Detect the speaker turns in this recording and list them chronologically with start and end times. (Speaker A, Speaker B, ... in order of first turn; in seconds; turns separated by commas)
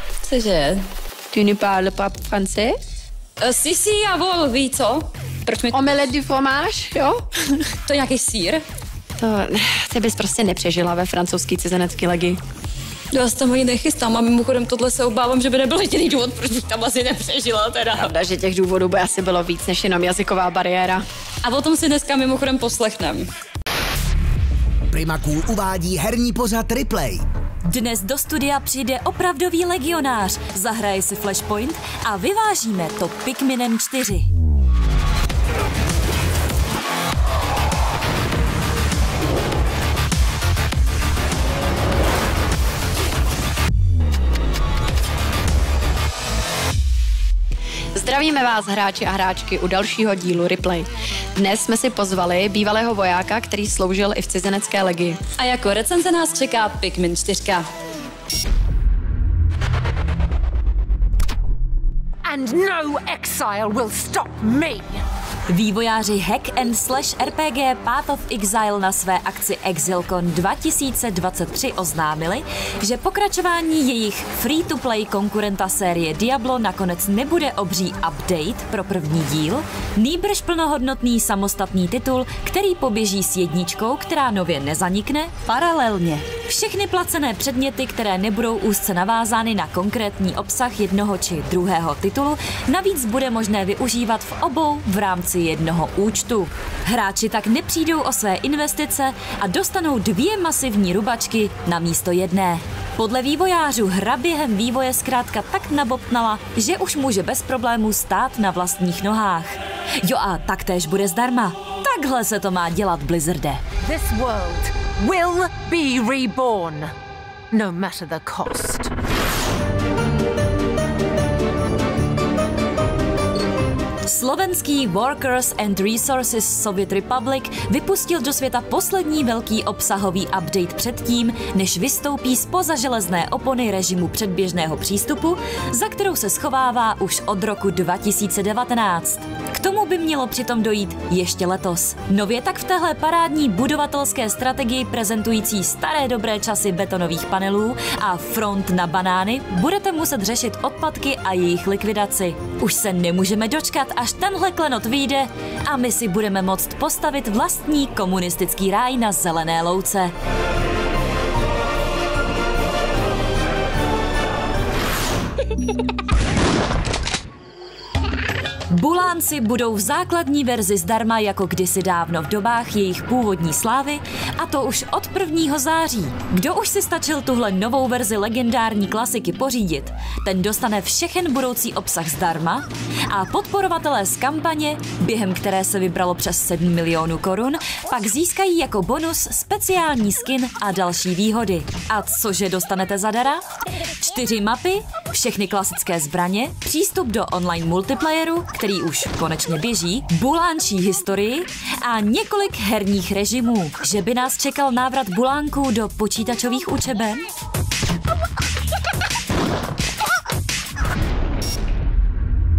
Speaker A: 0.2-0.9, Speaker B: 1.3-2.8, Speaker A: 3.4-5.9, Speaker B: 5.7-7.7, Speaker A: 7.9-8.6, Speaker B: 9.2-12.4, Speaker A: 13.1-18.1, Speaker B: 17.9-21.1, Speaker A: 21.4-23.3, Speaker C: 24.9-27.2, Speaker D: 27.7-34.3, Speaker B: 47.9-55.2, Speaker A: 55.4-57.7, Speaker E: 62.2-65.0, Speaker D: 65.5-113.6, Speaker E: 113.9-116.9, Speaker E: 117.5-118.9, Speaker D: 124.0-160.1, Speaker D: 168.7-193.4, Speaker D: 194.0-207.3